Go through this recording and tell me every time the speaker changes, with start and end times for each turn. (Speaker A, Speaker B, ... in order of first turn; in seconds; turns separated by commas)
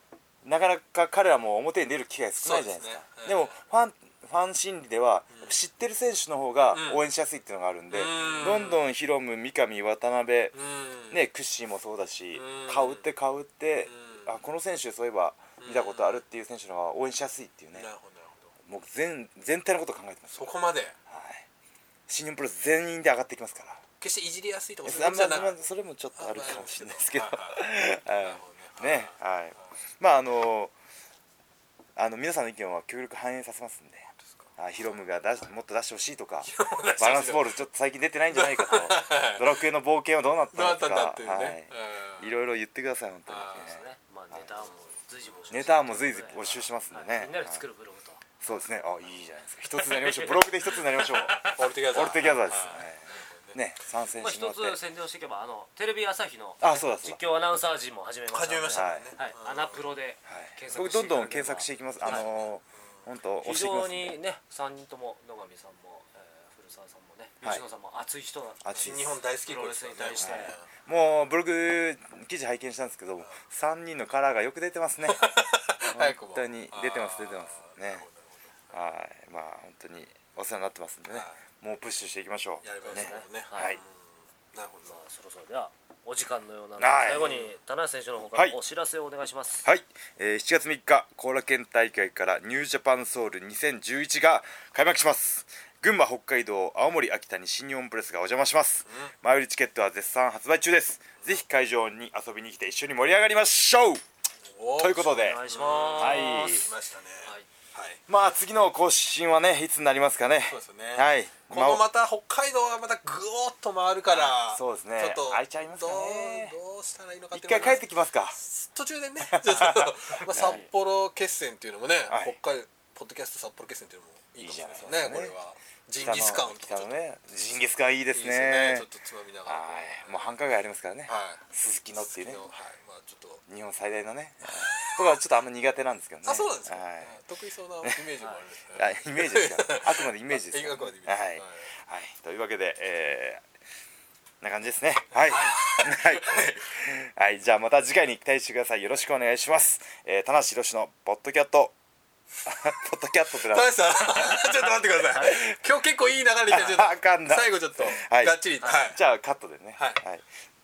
Speaker A: 0.4-10.6, Speaker B: 2.4-3.6, Speaker B: 5.3-5.6, Speaker B: 6.7-7.0, Speaker B: 7.9-8.9, Speaker B: 10.5-11.2, Speaker A: 11.1-17.9, Speaker B: 12.3-13.1, Speaker B: 13.9-14.3, Speaker B: 15.6-16.2, Speaker B: 17.8-18.5, Speaker A: 18.6-21.5, Speaker B: 20.4-21.0, Speaker A: 22.1-23.8, Speaker B: 24.0-25.6, Speaker A: 24.8-30.7, Speaker B: 26.2-29.1, Speaker A: 32.0-44.5, Speaker B: 34.3-34.5, Speaker B: 36.5-37.5, Speaker B: 38.3-39.6, Speaker B: 40.5-42.3, Speaker B: 43.3-43.8, Speaker C: 43.5-48.2, Speaker B: 44.6-45.7, Speaker A: 45.5-47.6, Speaker B: 46.4-46.7, Speaker A: 48.4-54.8, Speaker B: 48.5-49.3, Speaker C: 49.7-52.7, Speaker B: 51.4-53.6, Speaker C: 54.2-62.4, Speaker A: 56.6-57.2, Speaker B: 58.3-59.9, Speaker A: 58.7-59.1, Speaker A: 60.3-64.2, Speaker B: 62.0-62.4, Speaker C: 63.4-68.9, Speaker A: 68.6-69.2, Speaker B: 68.7-70.7, Speaker C: 69.5-70.6, Speaker A: 70.1-75.4, Speaker B: 75.1-78.7, Speaker A: 75.9-78.1, Speaker A: 78.7-83.8, Speaker B: 81.1-81.4, Speaker B: 82.6-85.0, Speaker C: 82.8-83.8, Speaker C: 84.9-89.7, Speaker A: 86.8-87.4, Speaker B: 87.1-87.5, Speaker A: 89.7-104.0, Speaker B: 98.9-99.1, Speaker B: 104.5-108.0, Speaker A: 104.8-105.4, Speaker C: 105.1-106.7, Speaker A: 106.0-106.7, Speaker A: 108.1-111.8, Speaker B: 110.5-117.8, Speaker A: 114.2-116.6, Speaker A: 117.3-118.4, Speaker B: 118.4-127.0, Speaker A: 119.2-120.6, Speaker C: 120.3-120.7, Speaker A: 122.1-122.4, Speaker A: 124.4-125.3, Speaker A: 126.0-128.9, Speaker B: 128.1-130.3, Speaker A: 129.5-132.5, Speaker B: 131.1-131.5, Speaker B: 132.0-133.4, Speaker A: 133.5-137.2, Speaker B: 134.4-135.0, Speaker B: 136.2-141.7, Speaker A: 138.8-143.4, Speaker A: 144.4-151.7, Speaker B: 145.3-146.7, Speaker C: 145.3-145.6, Speaker A: 152.5-155.5, Speaker B: 153.3-159.0, Speaker C: 155.1-155.4, Speaker A: 156.5-160.2, Speaker B: 159.8-160.0